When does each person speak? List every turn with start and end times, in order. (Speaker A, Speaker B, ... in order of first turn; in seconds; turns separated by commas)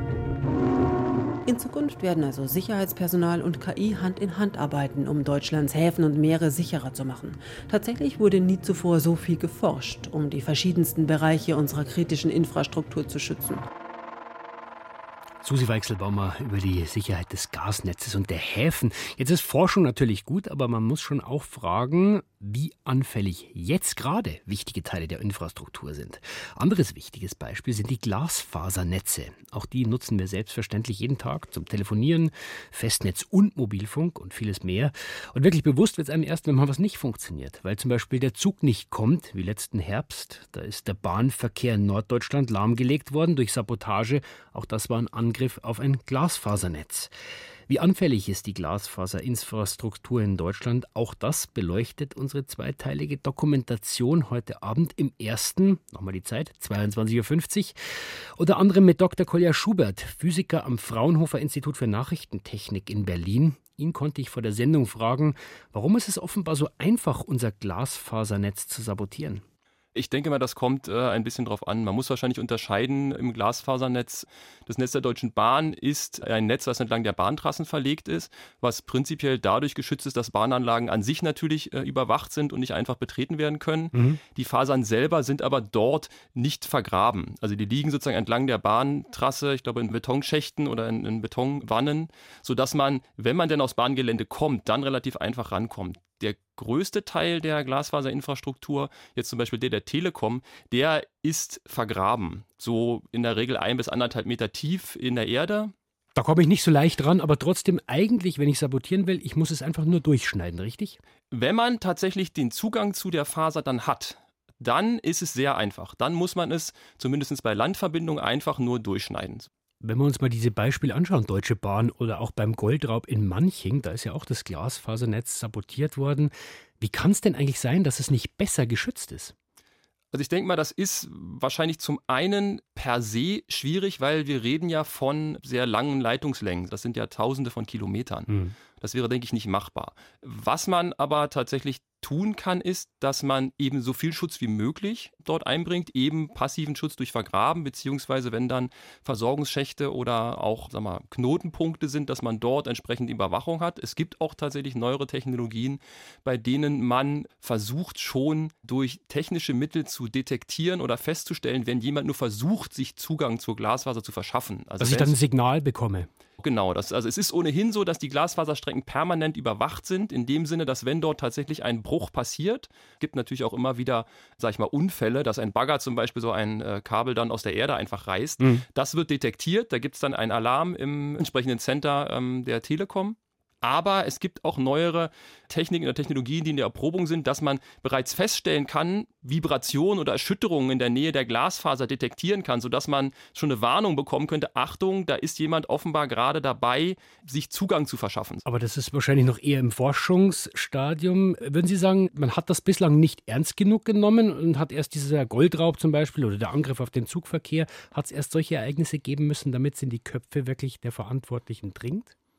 Speaker A: 1.5-13.6, Speaker B: 15.4-47.1, Speaker B: 47.7-57.8, Speaker B: 58.4-69.4, Speaker C: 70.0-105.7, Speaker B: 83.9-84.2, Speaker B: 106.2-111.0, Speaker C: 111.3-119.5, Speaker B: 119.8-129.3, Speaker C: 130.1-165.2, Speaker B: 138.3-138.5, Speaker B: 164.8-166.1, Speaker C: 166.4-198.4, Speaker B: 198.4-212.1